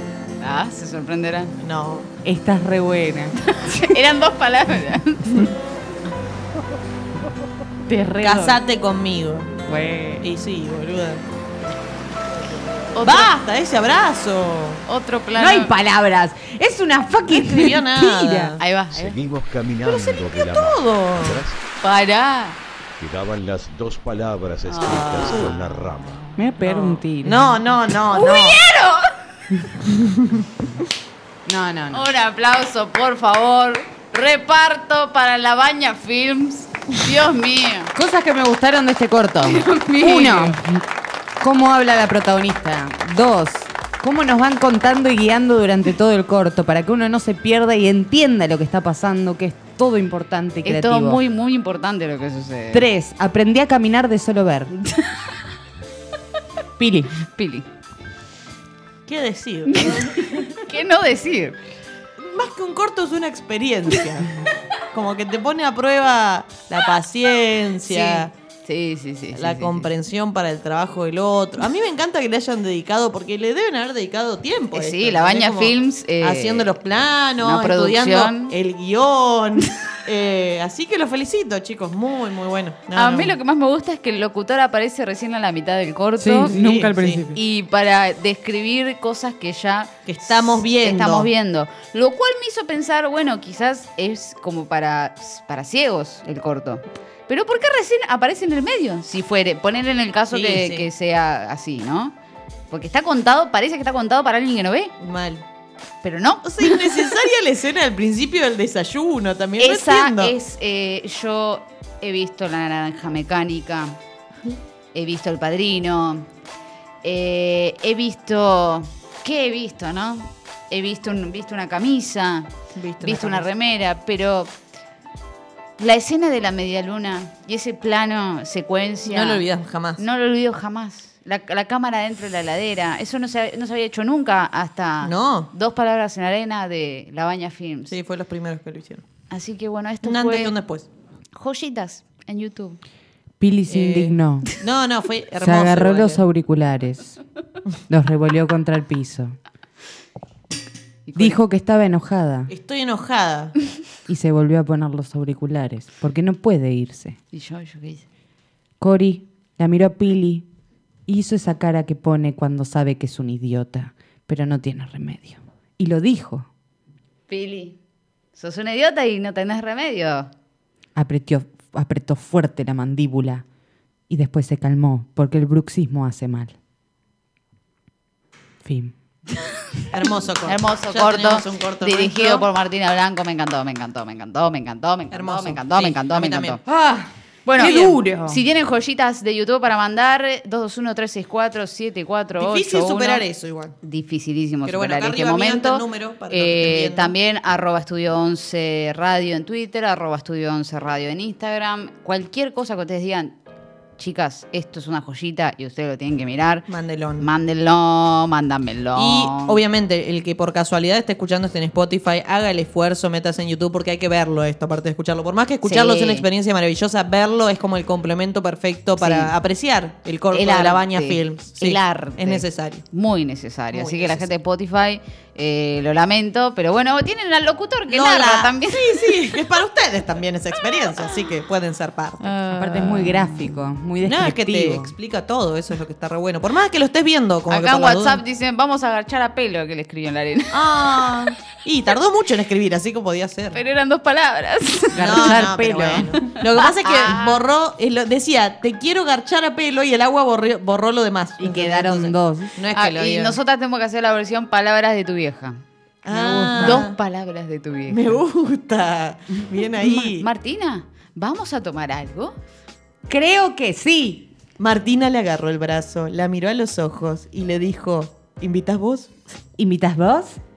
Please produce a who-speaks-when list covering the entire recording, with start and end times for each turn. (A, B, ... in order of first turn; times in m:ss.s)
0:00.4-0:01.5 A
0:01.6-0:02.1 B
0:02.2-0:03.4 C
0:03.4-0:05.5 A
0:07.8-0:08.6 C
0:08.2-0:09.5 B
0:09.6-0:10.2 C
0:10.2-0:11.2 B
0:13.0-0:13.4 A
0:13.0-0:14.8 B
0:14.9-0:15.7 A
0:15.3-0:18.5 C
0:17.3-0:18.6 B
0:18.6-0:19.2 A
0:18.9-0:21.6 D
0:19.8-0:21.4 B
0:21.8-0:22.6 A
0:23.0-0:26.3 D
0:24.7-0:25.6 A
0:24.9-0:25.5 B
0:26.4-0:27.6 C
0:26.6-0:28.6 B
0:28.1-0:29.1 A
0:29.8-0:30.4 B
0:31.4-0:32.0 C
0:31.9-0:37.9 A
0:37.9-0:40.8 C
0:39.4-0:40.6 A
0:41.4-0:51.2 C
0:50.6-0:52.9 A
0:52.7-0:54.7 C
0:54.8-0:55.1 A
0:56.8-0:57.2 C
0:57.3-0:57.6 A
0:59.1-1:00.5 B
0:59.7-1:01.6 A
1:02.2-1:04.3 B
1:04.9-1:08.3 B
1:07.9-1:09.9 A
1:09.3-1:23.3 B
1:14.7-1:16.8 A
1:17.4-1:18.5 A
1:22.9-1:26.6 A
1:26.2-1:27.4 C
1:26.4-1:27.2 B
1:27.3-1:42.1 A
1:30.0-1:31.3 B
1:40.3-1:40.9 B
1:42.7-1:44.9 A
1:45.0-1:45.4 B
1:46.0-1:47.1 A
1:46.4-1:50.3 B
1:49.6-1:54.0 A
1:54.9-1:56.3 A
1:57.0-2:02.5 A
2:02.7-2:03.5 B
2:03.0-2:04.5 A
2:05.8-2:09.4 A
2:09.0-2:10.0 B
2:10.0-2:17.9 A
2:15.0-2:15.5 B
2:17.9-2:19.0 B
2:19.3-2:20.5 A
2:20.0-2:20.9 B
2:21.3-2:22.8 A
2:23.4-2:24.5 C
2:23.7-2:26.2 B
2:25.4-2:27.2 C
2:27.9-2:29.4 C
2:31.1-2:31.4 A
2:31.2-2:32.5 C
2:32.5-2:33.5 B
2:34.1-2:37.2 C
2:37.3-2:38.0 A
2:38.8-2:40.5 C
2:41.1-2:46.5 C
2:47.3-2:47.8 A
2:48.4-2:50.3 A
2:51.0-2:53.4 C
2:54.1-2:56.5 C
2:58.6-2:58.9 C
2:59.9-3:02.5 B
3:00.5-3:06.6 A
3:05.1-3:06.6 B
3:06.6-3:08.4 C
3:07.4-3:13.2 A
3:07.6-3:07.9 B
3:12.4-3:13.7 B
3:13.8-3:23.3 A
3:14.6-3:17.1 B
3:24.0-3:26.7 A
3:26.7-3:27.3 B
3:27.2-3:29.6 A
3:29.0-3:42.8 B
3:35.6-3:36.3 A
3:39.0-3:39.3 A
3:40.3-3:49.4 A
3:43.7-3:44.3 B
3:47.9-3:52.3 B
3:52.2-3:53.5 A
3:52.5-3:54.9 C
3:54.0-3:58.2 B
3:57.5-4:01.2 A
4:00.5-4:03.6 B
4:03.5-4:07.4 A
4:04.9-4:06.2 C
4:05.0-4:13.4 B
4:11.4-4:12.5 C
4:12.7-4:15.6 A
4:16.0-4:17.0 B
4:16.1-4:16.8 C
4:16.6-4:18.2 A
4:17.9-4:20.3 B
4:19.8-4:22.3 A
4:23.1-4:24.3 C
4:24.6-4:29.1 B
4:29.6-4:30.4 C